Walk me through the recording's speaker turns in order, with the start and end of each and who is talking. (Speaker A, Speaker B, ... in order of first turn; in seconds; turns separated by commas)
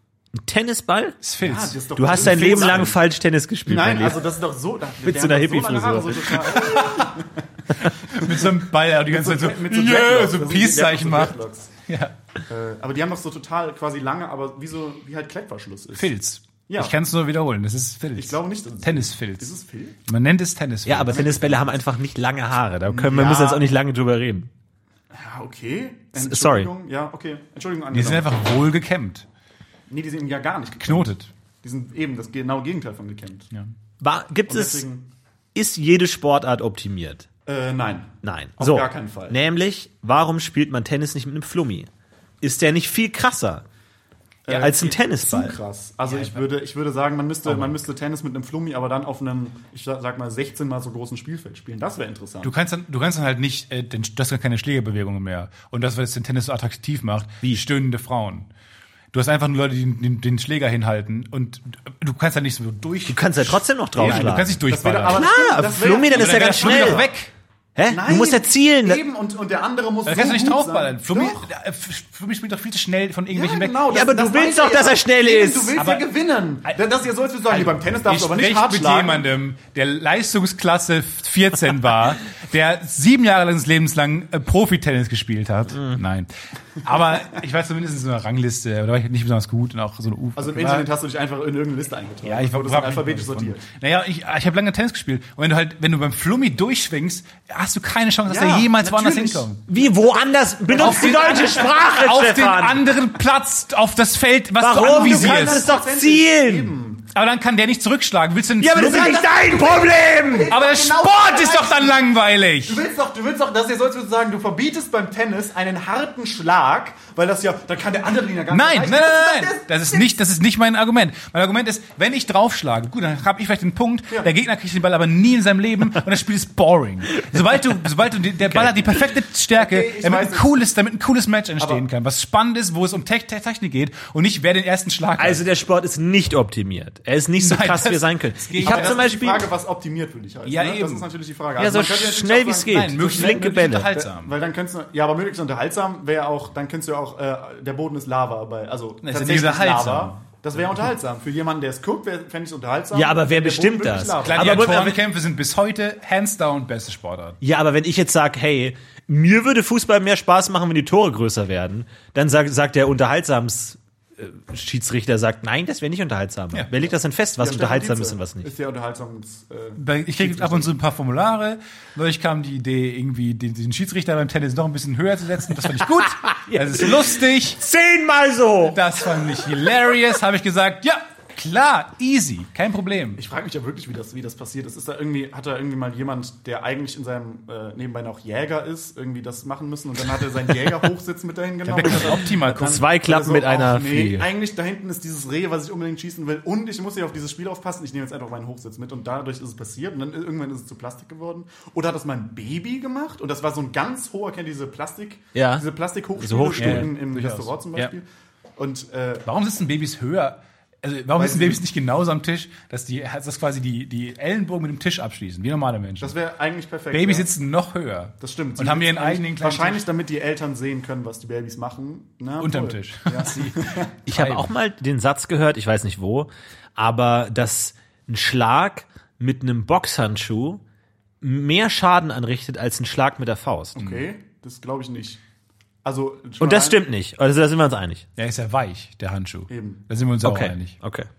Speaker A: 0.4-1.2, Speaker B: 1.2-3.0, Speaker C: 1.4-3.0, Speaker A: 1.9-4.2, Speaker C: 3.7-7.4, Speaker A: 5.0-6.7, Speaker B: 6.5-7.1, Speaker B: 7.8-12.2, Speaker C: 8.1-11.7, Speaker C: 12.5-16.1, Speaker B: 16.0-19.5, Speaker C: 16.7-17.0, Speaker C: 18.1-20.0, Speaker B: 20.1-21.6, Speaker A: 20.9-24.5, Speaker C: 21.1-21.7, Speaker C: 22.9-23.7, Speaker C: 25.1-28.4, Speaker A: 26.2-26.7, Speaker B: 27.9-29.3, Speaker C: 29.9-33.5, Speaker B: 30.8-31.3, Speaker A: 34.0-34.9, Speaker C: 34.5-35.1, Speaker A: 35.5-37.3, Speaker C: 37.5-39.4, Speaker A: 38.2-41.9, Speaker A: 42.4-43.6, Speaker C: 44.5-52.5, Speaker A: 44.5-45.5, Speaker B: 46.0-46.4, Speaker B: 47.5-47.8, Speaker B: 52.4-58.5, Speaker B: 59.1-65.2, Speaker A: 63.1-67.0, Speaker C: 64.0-67.1, Speaker B: 66.1-67.3, Speaker A: 67.8-69.0, Speaker C: 67.9-71.5, Speaker B: 70.0-73.8, Speaker C: 73.3-79.3, Speaker A: 73.9-75.8, Speaker B: 75.8-76.1, Speaker B: 77.5-86.3, Speaker A: 85.8-86.0, Speaker B: 86.8-90.9, Speaker C: 90.4-93.7, Speaker B: 92.2-99.6, Speaker C: 98.3-99.5, Speaker A: 99.7-102.8, Speaker C: 100.7-101.5, Speaker B: 100.7-105.7, Speaker A: 104.6-106.7, Speaker C: 104.8-107.1, Speaker B: 107.1-109.2, Speaker A: 108.6-110.5, Speaker C: 108.8-112.1, Speaker B: 110.5-112.8, Speaker C: 112.6-120.0, Speaker B: 118.5-135.4, Speaker C: 129.6-130.6, Speaker C: 131.6-131.9, Speaker A: 135.2-139.4, Speaker B: 137.4-139.0, Speaker C: 138.6-154.9, Speaker B: 140.5-141.1, Speaker A: 141.6-143.9, Speaker B: 142.6-144.3, Speaker B: 149.0-150.2, Speaker A: 152.9-155.0, Speaker B: 154.2-157.4, Speaker A: 157.4-168.5, Speaker C: 167.4-170.7, Speaker B: 169.8-177.6, Speaker A: 176.2-178.8, Speaker B: 178.7-183.2, Speaker C: 183.2-208.1, Speaker B: 191.7-192.8, Speaker A: 192.5-194.3, Speaker A: 205.3-205.6, Speaker A: 206.2-206.9, Speaker B: 206.6-207.9, Speaker C: 208.6-209.2, Speaker B: 209.2-216.2, Speaker C: 211.2-211.6, Speaker C: 216.0-217.3, Speaker B: 216.9-219.8, Speaker C: 218.2-223.9, Speaker B: 222.4-224.5, Speaker A: 224.1-230.6, Speaker A: 231.2-234.0, Speaker C: 233.8-235.2, Speaker C: 235.8-236.8, Speaker A: 236.4-238.1, Speaker B: 238.2-240.7, Speaker C: 239.5-239.8, Speaker A: 240.2-241.1